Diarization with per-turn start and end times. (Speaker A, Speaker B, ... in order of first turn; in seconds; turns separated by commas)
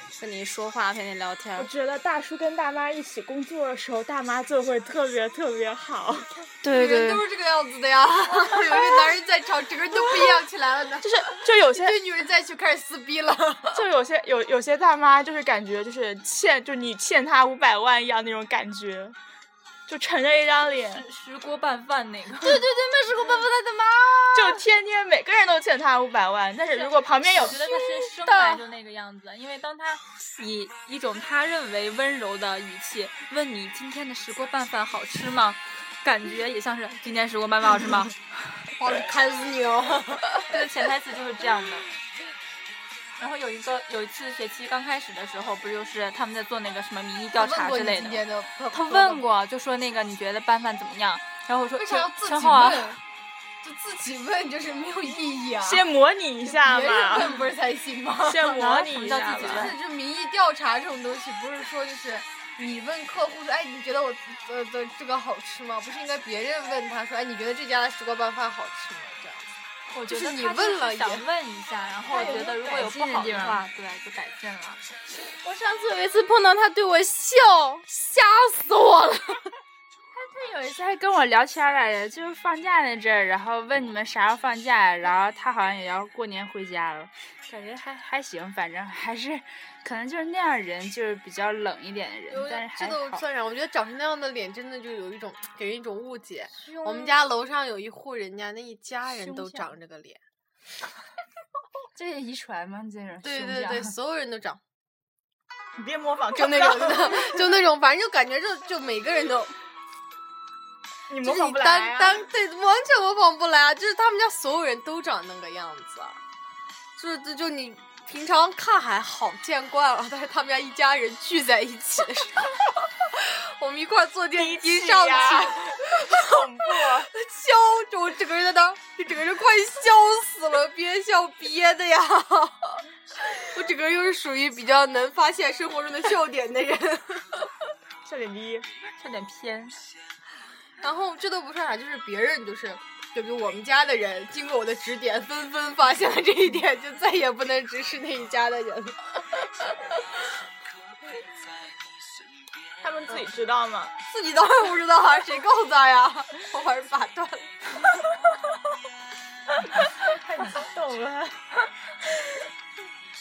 Speaker A: 0.1-1.7, Speaker B: 1.6-6.5, Speaker C: 6.6-13.8, Speaker B: 11.0-12.0, Speaker B: 13.7-19.1, Speaker B: 19.9-21.0, Speaker D: 20.9-22.6, Speaker A: 22.4-24.6, Speaker B: 24.3-27.6, Speaker D: 26.9-38.2, Speaker A: 27.5-28.6, Speaker C: 38.8-40.5, Speaker D: 40.4-41.9, Speaker D: 43.2-53.0, Speaker C: 47.3-49.3, Speaker C: 51.8-53.0, Speaker C: 53.6-55.9, Speaker B: 55.6-57.5, Speaker C: 56.4-58.9, Speaker B: 58.2-59.8, Speaker D: 58.7-59.8, Speaker C: 59.4-69.5, Speaker D: 69.9-74.8, Speaker C: 70.1-71.3, Speaker E: 72.1-73.6, Speaker A: 72.2-72.4, Speaker A: 75.3-79.5, Speaker E: 80.1-93.2, Speaker C: 92.3-100.2, Speaker E: 96.7-97.1, Speaker E: 99.1-99.7, Speaker E: 101.9-103.9, Speaker C: 103.2-104.6, Speaker B: 105.8-107.5, Speaker C: 106.3-109.5, Speaker B: 111.1-112.2, Speaker C: 111.2-116.2, Speaker C: 117.0-137.5, Speaker B: 124.3-127.1, Speaker B: 138.0-138.7, Speaker D: 139.0-139.9, Speaker C: 140.8-150.0, Speaker B: 152.8-153.9, Speaker C: 154.1-157.7, Speaker B: 159.6-161.5